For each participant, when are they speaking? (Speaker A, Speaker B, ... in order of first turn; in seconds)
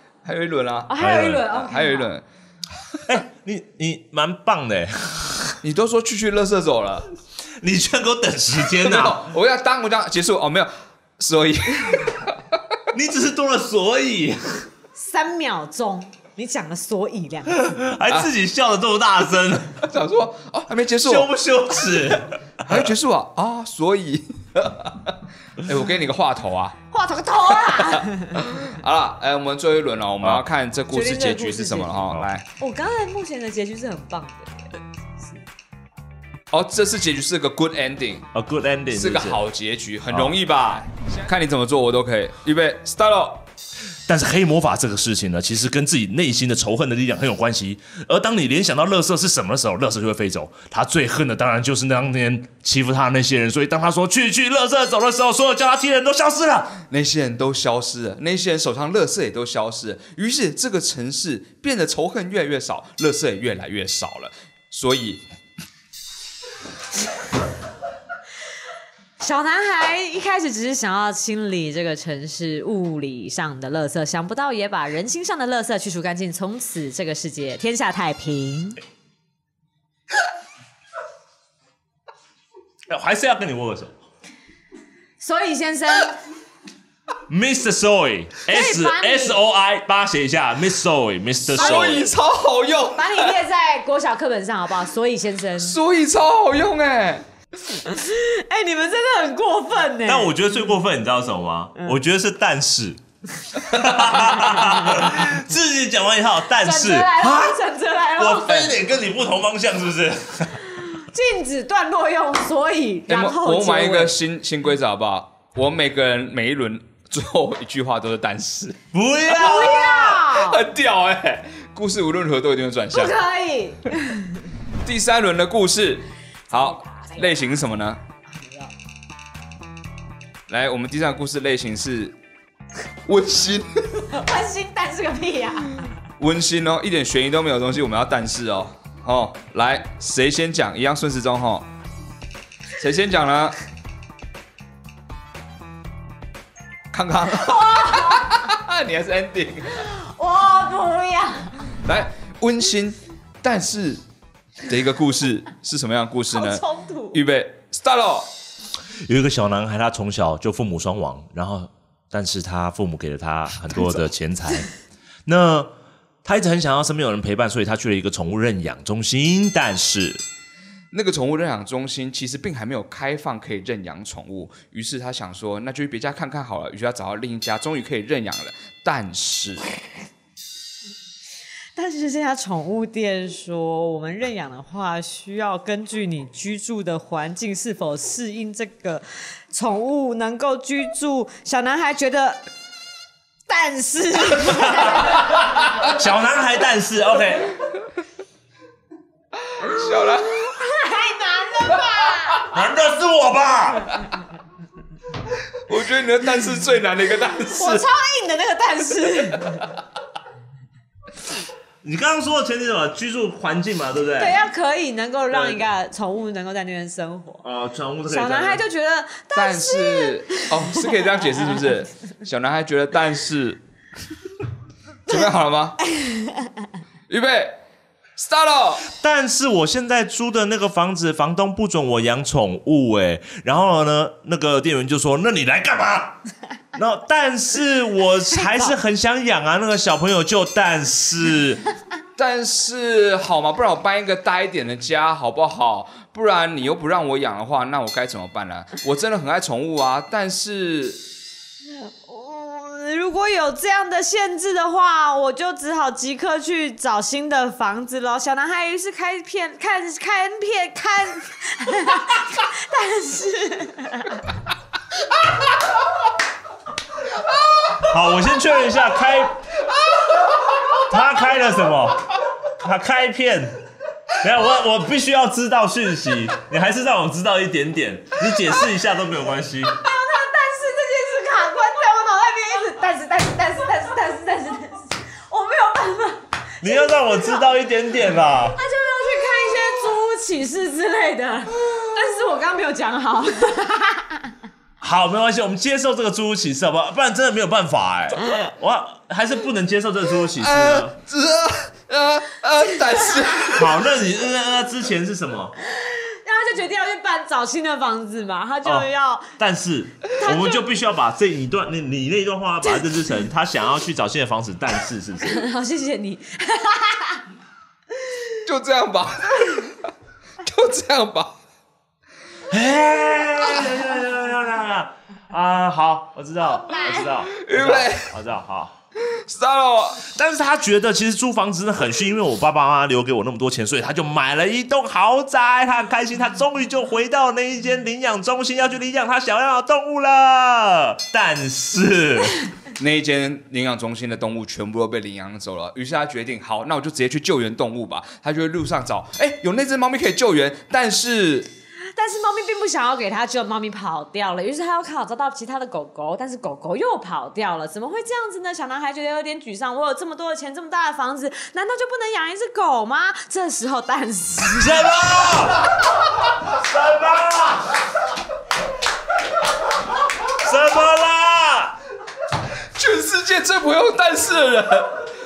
Speaker A: 0.2-2.2, 5.6-7.1, 8.7-12.4, 19.8-26.8, 27.7-32.5, 36.5-38.3, 38.9-43.4, 56.9-65.2, 91.5-93.3, 95.6-97.3, 113.1-118.8, 120.3-123.1, 124.8-128.0, 130.5-132.1, 133.1-134.1, 136.2-141.7, 142.8-143.6, 146.9-149.9, 151.8-154.0, 154.6-158.3, 170.9-179.7, 199.5-200.5, 205.7-207.8, 219.3-223.6, 225.1-225.8, 227.1-227.6, 228.2-228.9, 242.2-251.0, 300.4-303.8, 318.4-319.9, 320.4-321.3, 327.3-328.1, 329.1-330.0, 342.8-351.5, 372.7-375.0
Speaker B: 0.9-2.1, 14.9-17.7, 26.9-28.4, 30.9-32.0, 32.6-35.4, 69.2-78.8, 85.2-86.2, 88.5-89.4, 91.5-92.1, 93.0-95.8, 97.7-100.4, 106.6-108.7, 110.9-114.2, 119.3-120.6, 122.9-124.5, 126.5-127.3, 128.3-128.7, 134.1-135.9, 147.3-148.3, 149.8-151.7, 156.3-157.2, 181.8-192.4, 193.5-195.2, 199.8-202.5, 207.5-209.7, 214.2-217.4, 218.1-220.8, 225.8-226.5, 251.7-264.2, 279.7-287.4, 288.5-294.3, 305.7-309.3, 310.2-310.7, 315.2-317.2, 326.7-327.1, 351.9-364.9
Speaker C: 1.0-1.4, 3.0-5.6, 7.6-9.3, 12.9-14.7, 17.5-19.8, 21.0-22.9, 38.3-39.4, 40.1-40.4, 44.1-56.8, 82.9-84.0, 87.3-92.1, 100.0-103.0, 103.6-107.6, 108.1-110.7, 118.9-120.3, 159.1-164.7, 165.3-165.7, 166.2-170.2, 194.5-194.9, 195.7-197.5, 202.4-204.0, 211.8-214.4, 215.3-215.6, 217.4-218.6, 228.9-236.2, 236.7-241.6, 267.8-269.4, 270.8-273.6, 274.2-279.8, 286.6-288.6, 294.8-300.9, 303.6-305.6, 308.6-315.4, 322.5-328.7, 330.0-342.4, 364.5-365.8, 366.4-367.8, 370.3-371.8